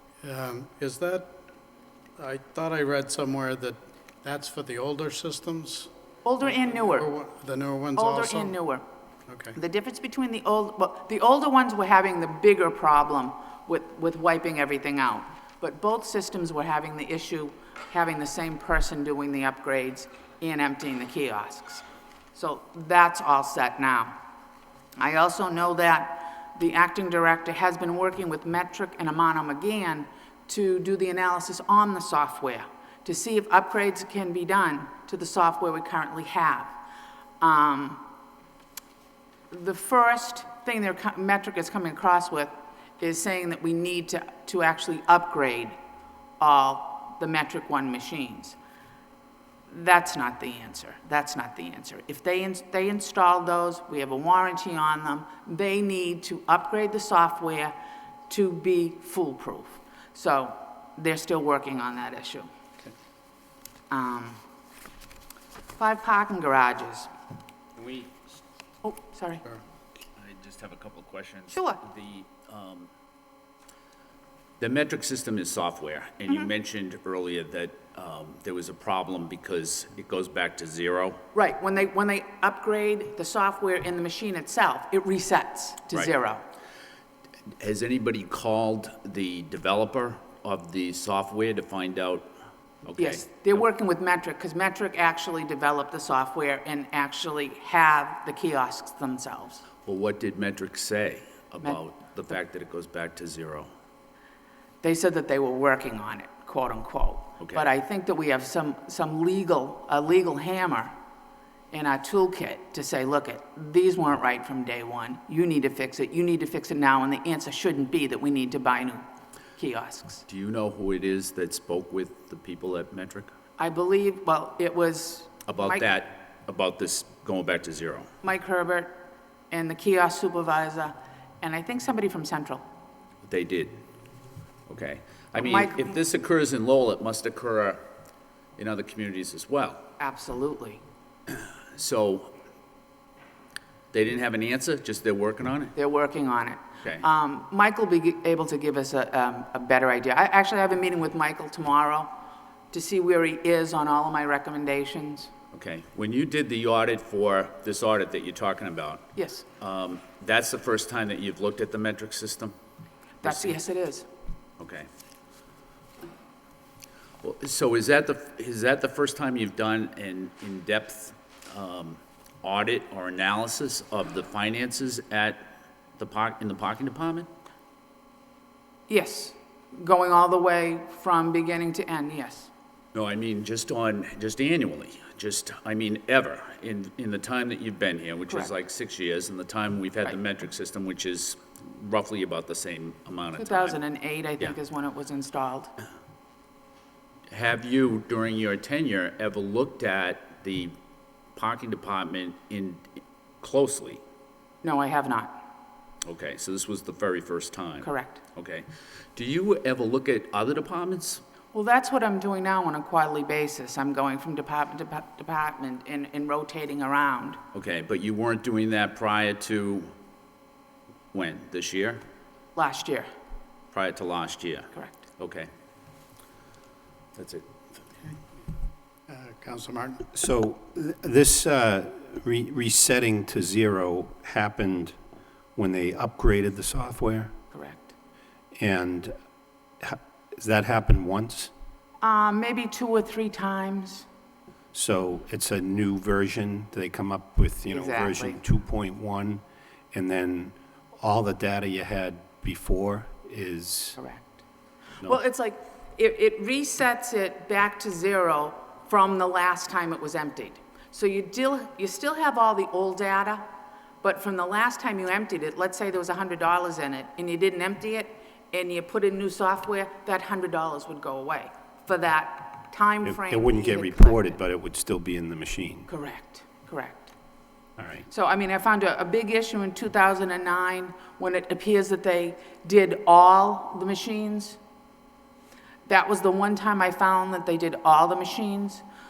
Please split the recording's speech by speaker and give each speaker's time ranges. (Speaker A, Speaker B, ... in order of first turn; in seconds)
Speaker A: 0.2-1.4, 2.2-5.9, 6.7-8.6, 9.3-9.6, 229.1-230.1
Speaker B: 6.2-7.1, 8.0-8.8, 9.5-24.1, 25.0-36.7, 37.4-38.0, 39.5-45.8, 46.4-48.6, 49.7-57.7, 58.3-62.5, 63.9-64.4, 65.8-67.1, 68.8-69.4, 71.5-71.8, 81.3-86.4, 93.0-99.6, 104.8-110.9, 111.7-119.0, 119.6-120.2, 123.6-125.8, 128.2-128.9, 129.5-132.6, 135.4-135.9, 140.0-140.8, 145.7-152.1, 152.7-155.3, 159.1-159.5, 163.2-164.1, 178.9-182.5, 193.4-195.7, 204.6-205.3, 207.8-208.2, 211.5-217.4, 222.6-223.1, 224.7-225.0, 237.5-237.9, 242.0-244.1, 247.7-248.4, 254.0-254.2, 255.0-263.4, 264.0-274.4, 275.9-277.1, 278.1-284.6, 285.9-288.8
Speaker C: 67.8-68.1, 70.2-72.9, 74.6-81.2, 87.6-92.3, 92.8-93.2, 99.8-103.7, 107.4-107.7, 120.3-123.3, 125.5-128.1, 133.2-133.8, 134.7-137.8, 138.6-139.8, 141.3-142.3, 143.9-145.7, 155.5-159.1, 159.6-162.5, 163.2-163.6, 164.6-164.9, 167.2-177.3, 182.9-193.8, 197.3-200.7, 201.3-204.0, 206.0-211.2, 217.5-219.9, 221.1-222.0, 223.7-225.5, 227.2-227.5
Speaker D: 230.1-234.9, 235.6-237.3, 238.5-239.1, 239.8-241.5, 244.7-254.0, 273.0-275.9, 277.8-278.1